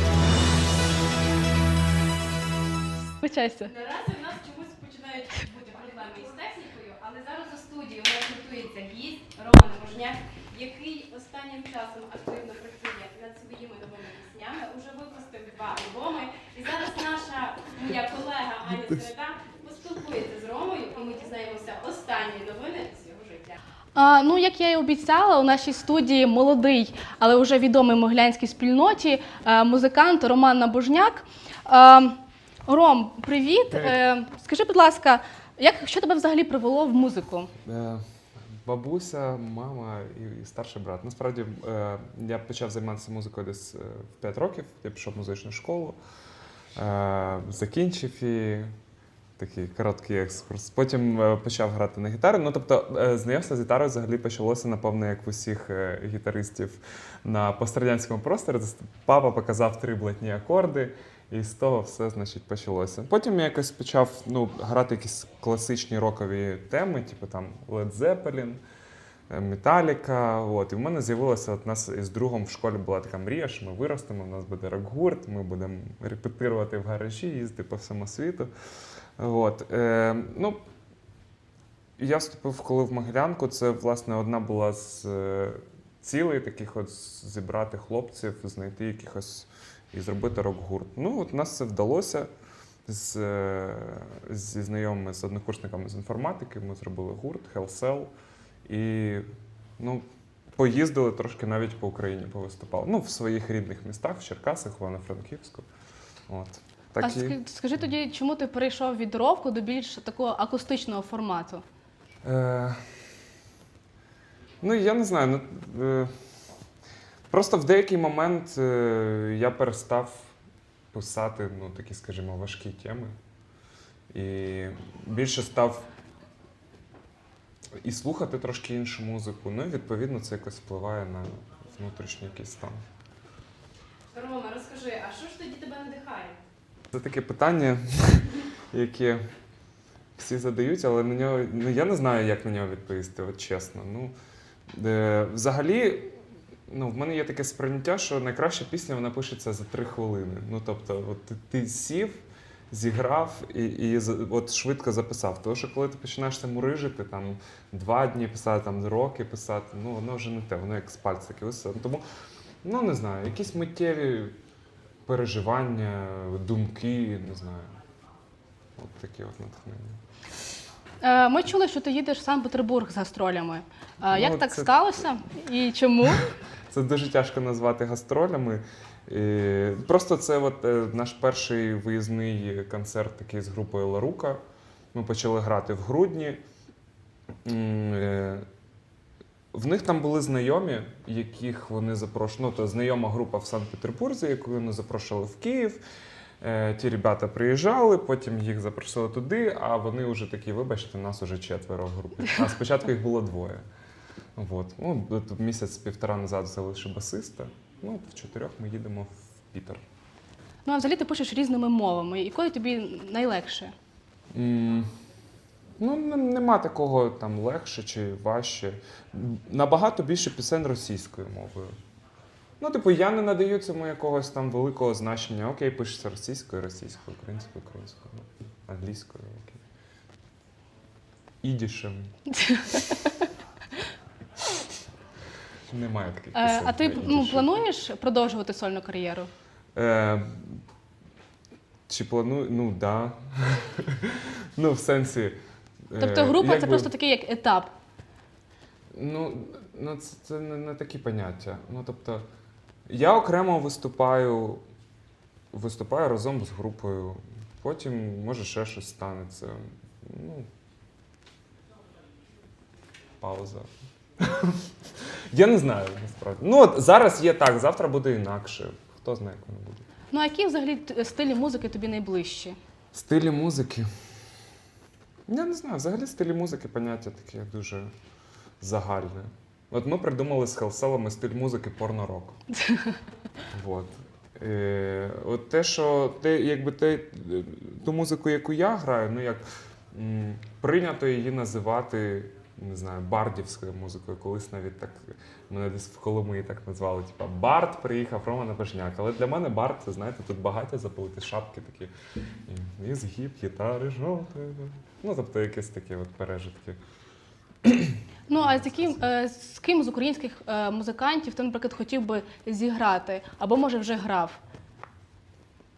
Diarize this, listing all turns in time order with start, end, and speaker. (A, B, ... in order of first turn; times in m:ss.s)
0:03.2-0:03.7 A
0:03.7-0:23.6 B
0:24.0-0:37.5 A
0:37.7-0:38.0 C
0:38.6-0:46.0 C
0:46.8-0:48.7 C
0:49.4-1:08.6 C
1:09.3-1:18.5 C
1:19.2-1:20.6 C
1:22.0-1:32.3 C
1:32.9-1:38.1 C
1:38.7-1:39.3 C
1:39.8-1:40.0 C
1:40.6-1:45.7 C
1:46.3-1:47.4 C
1:47.0-1:51.6 A
1:52.2-1:52.8 C
1:54.6-1:56.1 C
1:57.3-2:00.3 C
2:00.9-2:03.1 C
2:04.1-2:05.8 C
2:07.8-2:12.8 C
2:14.1-2:16.4 B
2:16.9-2:19.2 C
2:20.2-2:24.1 C
2:24.7-2:26.1 C
2:26.7-2:42.0 C
2:42.6-2:44.3 C
2:45.1-2:47.8 C
2:48.8-2:50.0 C
2:51.0-2:56.3 A
2:54.1-2:55.1 C
2:56.7-3:04.4 C
3:04.9-3:06.4 C
3:07.4-3:08.5 C
3:09.5-3:15.8 C
3:16.4-3:23.6 C
3:24.4-3:29.8 C
3:30.6-3:33.7 A
3:34.3-3:34.9 C
3:35.8-3:41.8 C
3:42.6-3:49.6 C
3:51.4-3:52.1 C
3:52.3-3:53.1 A
3:55.7-3:57.5 C
3:56.4-3:59.3 A
3:59.8-4:00.6 C
4:01.9-4:05.4 C
4:05.9-4:06.9 C
4:06.0-4:07.7 A
4:08.9-4:12.2 C
4:12.9-4:14.6 C
4:15.5-4:20.5 C
4:23.2-4:23.7 C
4:24.2-4:24.6 C
4:25.3-4:29.9 C
4:30.1-4:32.6 A
4:32.9-4:33.9 C
4:35.3-4:37.9 C
4:38.6-4:42.4 C
4:42.6-4:43.0 A
4:43.5-5:01.9 C
5:02.5-5:06.8 C
5:07.6-5:09.0 C
5:08.3-5:14.4 A